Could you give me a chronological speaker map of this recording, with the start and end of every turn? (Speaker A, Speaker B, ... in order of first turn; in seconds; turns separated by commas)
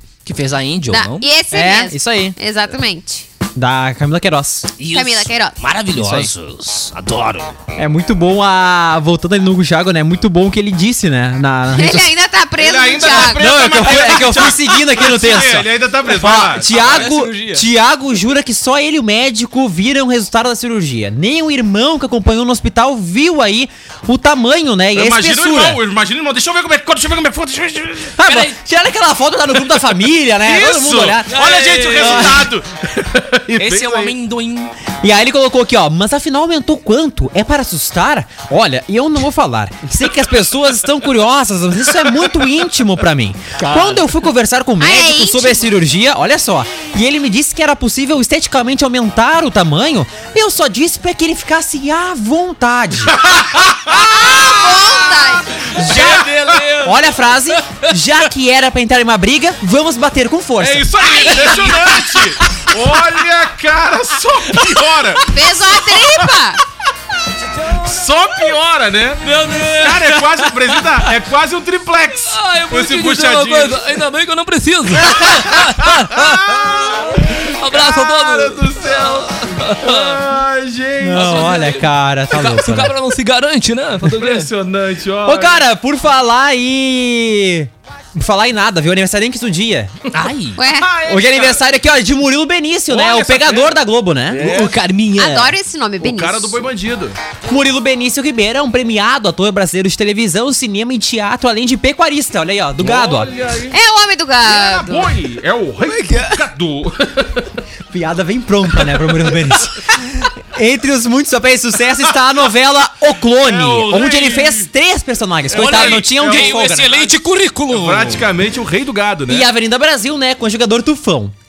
Speaker A: 0.2-1.3, Speaker B: 0.9-3.3, Speaker C: 1.5-2.4, Speaker C: 3.5-4.7, Speaker A: 4.8-7.5, Speaker B: 4.9-5.6, Speaker C: 5.9-6.3, Speaker C: 7.8-12.1, Speaker B: 11.7-13.6, Speaker D: 12.6-17.1, Speaker C: 13.3-25.8, Speaker A: 16.7-17.7, Speaker D: 24.9-28.2, Speaker C: 28.1-31.4, Speaker A: 28.2-28.6, Speaker D: 30.4-34.1, Speaker A: 31.3-32.5, Speaker C: 31.9-32.4, Speaker A: 33.5-34.7, Speaker C: 35.0-53.2, Speaker A: 43.6-44.1, Speaker B: 44.8-45.8, Speaker D: 53.1-56.6, Speaker B: 53.9-55.7, Speaker A: 55.7-57.9, Speaker C: 55.8-56.2, Speaker C: 56.8-60.9, Speaker D: 60.6-65.8, Speaker A: 61.0-62.7, Speaker A: 64.5-65.2, Speaker B: 65.3-66.6, Speaker D: 67.7-73.8, Speaker A: 69.2-71.1, Speaker A: 72.3-80.2, Speaker D: 75.0-81.7, Speaker C: 81.0-82.9, Speaker A: 81.1-84.5, Speaker D: 84.0-85.7, Speaker C: 85.2-89.9, Speaker A: 90.1-90.6, Speaker B: 90.5-90.9, Speaker D: 90.8-91.6, Speaker C: 91.0-94.5, Speaker D: 92.9-94.8, Speaker A: 94.3-95.6, Speaker B: 95.2-96.7, Speaker D: 96.0-97.2, Speaker C: 97.5-103.3, Speaker D: 102.8-103.8, Speaker B: 103.7-105.1, Speaker D: 104.4-107.6, Speaker A: 105.8-106.4, Speaker C: 107.9-117.0, Speaker D: 109.1-109.5, Speaker D: 112.1-112.4, Speaker D: 113.4-114.7, Speaker D: 115.5-117.1, Speaker A: 115.5-118.3, Speaker D: 117.7-119.5, Speaker C: 119.3-121.3